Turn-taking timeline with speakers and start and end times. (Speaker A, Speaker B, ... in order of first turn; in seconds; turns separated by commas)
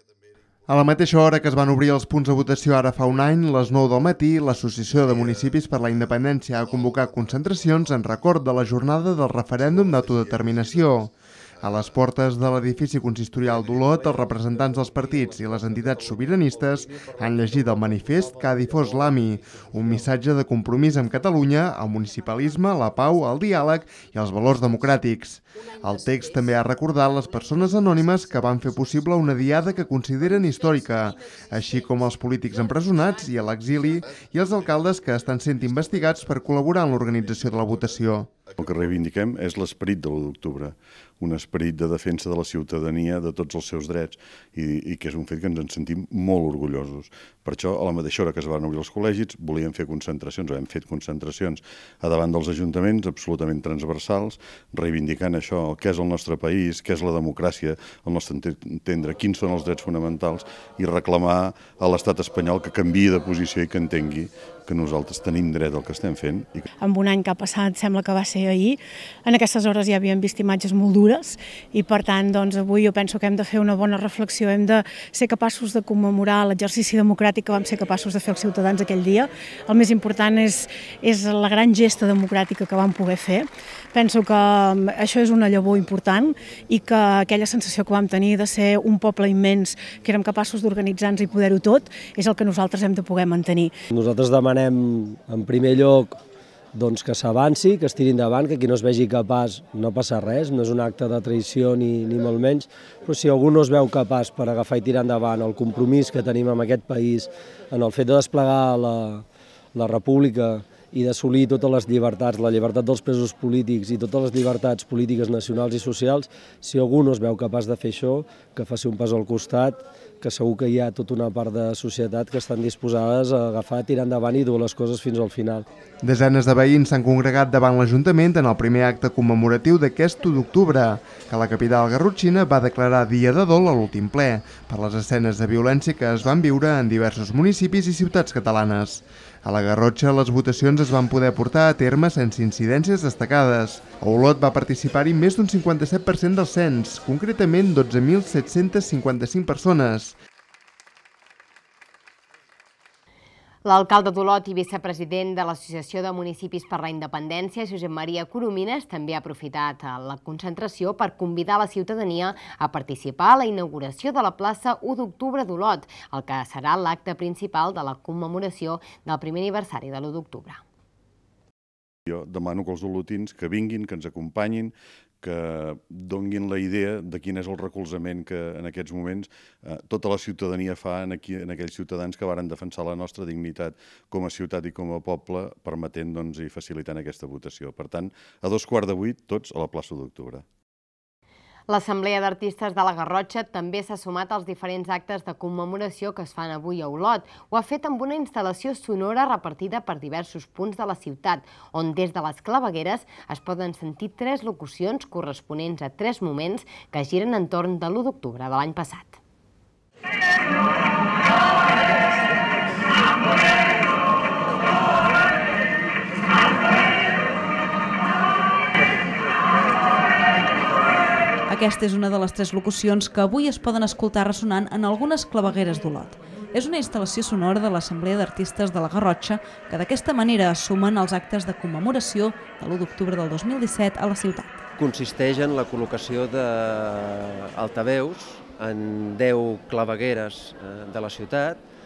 Speaker A: 0.7-38.3, Speaker B: 38.6-66.7, Speaker C: 66.8-93.7, Speaker D: 93.9-96.2, Speaker D: 96.8-125.7, Speaker A: 126.0-150.2, Speaker E: 153.7-170.6, Speaker B: 172.1-190.4, Speaker E: 191.7-209.2, Speaker F: 221.5-234.6, Speaker G: 234.8-241.6